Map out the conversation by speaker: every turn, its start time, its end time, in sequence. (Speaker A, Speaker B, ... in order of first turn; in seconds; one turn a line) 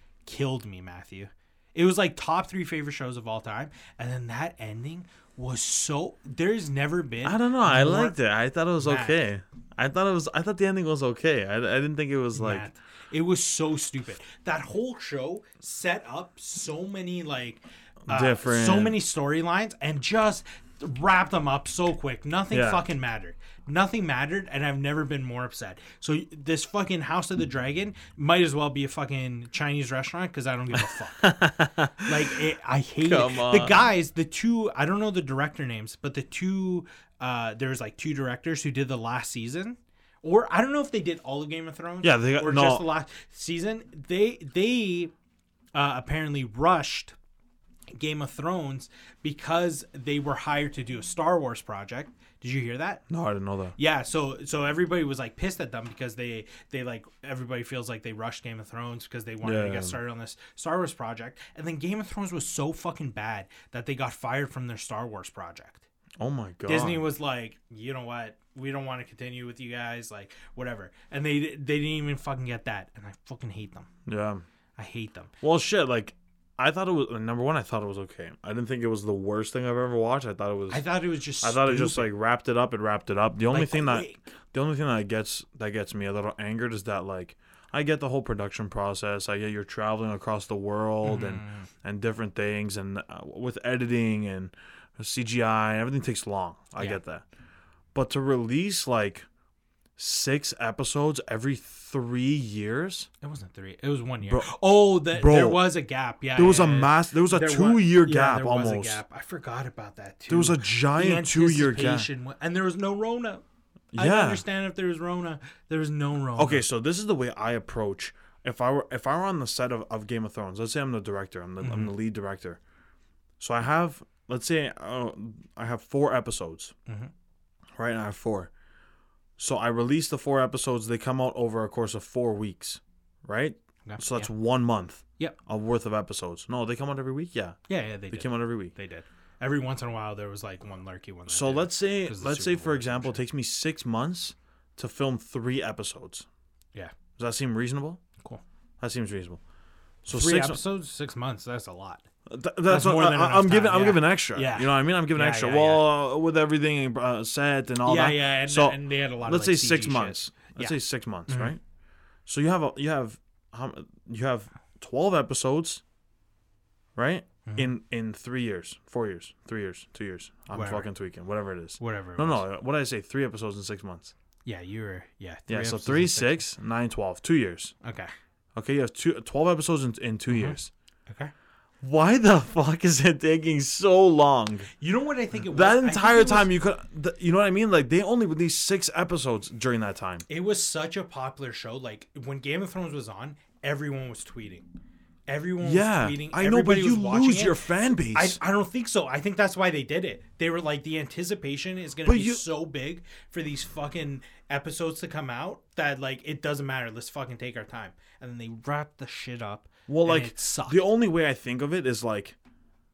Speaker A: 0.2-8.2
Speaker B: 7.2-12.7
Speaker A: 8.8-9.2
Speaker A: 12.3-31.4
Speaker B: 18.1-19.0
Speaker B: 22.5-22.8
Speaker B: 31.2-32.4
Speaker A: 32.0-45.1
Speaker B: 33.0-33.8
Speaker B: 42.0-42.9
Speaker A: 45.7-47.1
Speaker A: 47.9-53.0
Speaker B: 53.1-53.8
Speaker A: 53.8-65.8
Speaker B: 59.4-60.0
Speaker B: 66.2-67.0
Speaker A: 66.7-73.9
Speaker B: 74.1-74.4
Speaker A: 74.8-75.3
Speaker B: 75.4-80.8
Speaker A: 80.7-82.1
Speaker B: 81.4-97.2
Speaker A: 83.5-84.2
Speaker A: 91.0-91.7
Speaker B: 97.9-99.2
Speaker B: 100.0-103.1
Speaker A: 103.2-113.4
Speaker B: 104.2-105.7
Speaker B: 106.3-109.0
Speaker B: 110.3-112.1
Speaker B: 113.9-114.4
Speaker A: 114.0-116.7
Speaker B: 116.4-122.6
Speaker A: 121.6-122.0
Speaker B: 123.4-126.7
Speaker B: 127.8-128.5
Speaker B: 129.4-137.6
Speaker A: 133.8-134.3
Speaker A: 137.7-143.2
Speaker B: 138.1-138.7
Speaker B: 141.3-146.2
Speaker B: 147.2-148.0
Speaker B: 148.8-149.4
Speaker B: 150.0-150.6
Speaker A: 150.1-152.1
Speaker B: 152.3-161.6
Speaker A: 152.7-155.8
Speaker A: 157.8-160.8
Speaker A: 161.3-161.5
Speaker B: 162.2-165.8
Speaker B: 166.9-174.1
Speaker A: 167.4-167.7
Speaker A: 170.5-170.9
Speaker A: 171.8-172.4
Speaker A: 174.4-176.4
Speaker B: 175.5-177.7
Speaker A: 177.8-178.1
Speaker B: 178.6-180.7
Speaker A: 180.3-180.6
Speaker A: 181.1-181.3
Speaker B: 181.8-184.7
Speaker A: 184.8-186.5
Speaker B: 185.4-190.2
Speaker A: 190.3-194.7
Speaker A: 195.3-197.6
Speaker B: 195.6-198.4
Speaker A: 198.1-210.8
Speaker B: 202.0-202.4
Speaker B: 209.9-212.3